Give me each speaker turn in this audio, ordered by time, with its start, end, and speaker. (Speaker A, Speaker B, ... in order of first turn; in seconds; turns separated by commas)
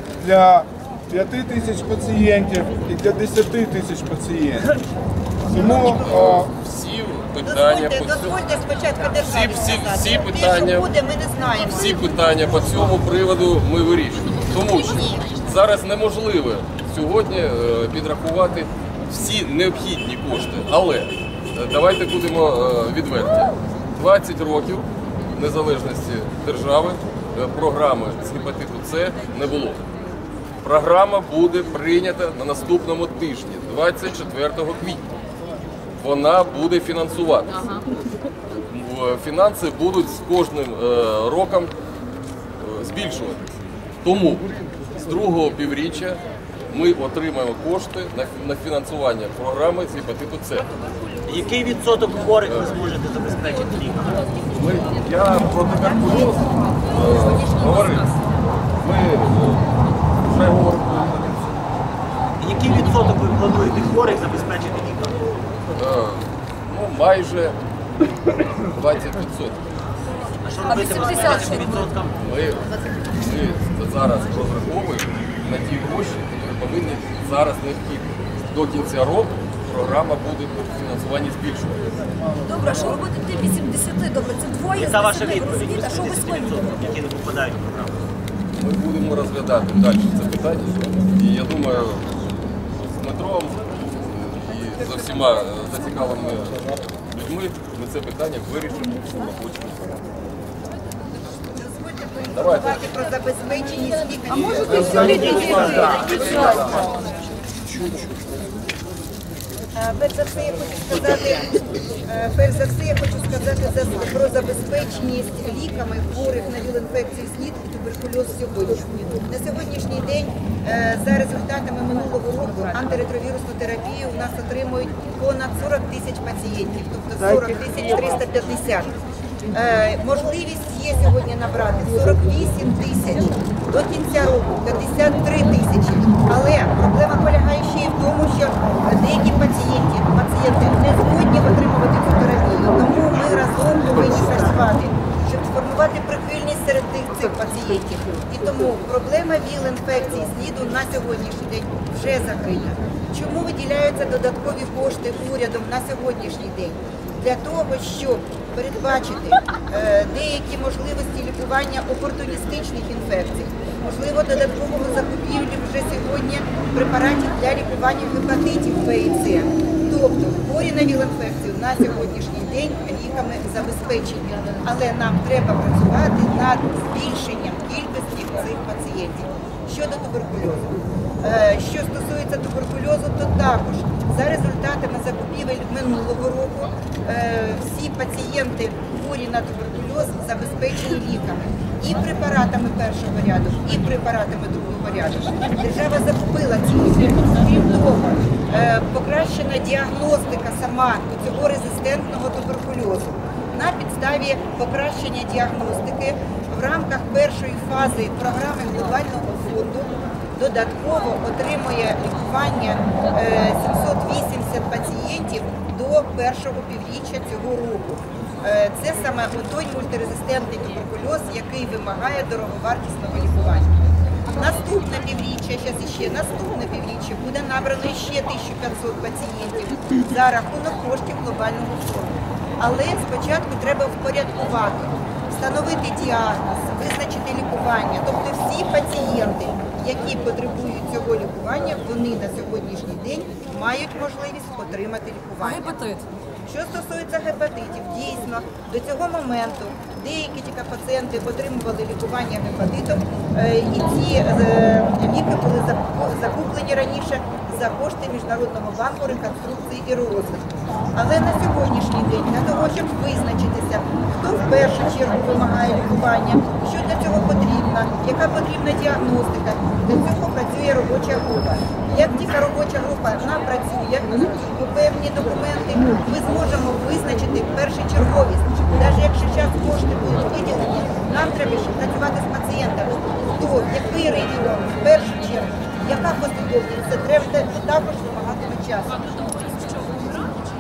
Speaker A: 0.2-4.7, Speaker A: 5.5-6.5, Speaker B: 5.6-6.0, Speaker C: 5.9-8.6, Speaker B: 7.4-12.1, Speaker C: 9.2-10.9, Speaker C: 11.6-29.8, Speaker B: 14.6-15.3, Speaker C: 30.6-35.0, Speaker C: 36.0-37.7, Speaker C: 38.5-41.7, Speaker C: 42.6-43.4, Speaker C: 44.0-50.7, Speaker D: 51.2-54.3, Speaker C: 52.4-52.8, Speaker C: 54.5-58.2, Speaker C: 58.8-61.5, Speaker D: 62.4-65.2, Speaker C: 65.8-67.6, Speaker C: 68.7-69.6, Speaker D: 70.4-72.1, Speaker E: 70.6-71.9, Speaker C: 72.2-81.9, Speaker E: 82.4-86.9, Speaker D: 84.8-88.0, Speaker C: 88.6-100.0, Speaker B: 101.5-106.9, Speaker C: 102.3-102.9, Speaker E: 104.4-106.8, Speaker D: 105.0-106.8, Speaker B: 109.8-111.5, Speaker B: 112.1-128.9, Speaker B: 129.5-217.9, Speaker B: 218.4-223.8, Speaker B: 224.3-245.8, Speaker E: 245.4-246.1, Speaker B: 246.5-289.4, Speaker B: 290.0-290.3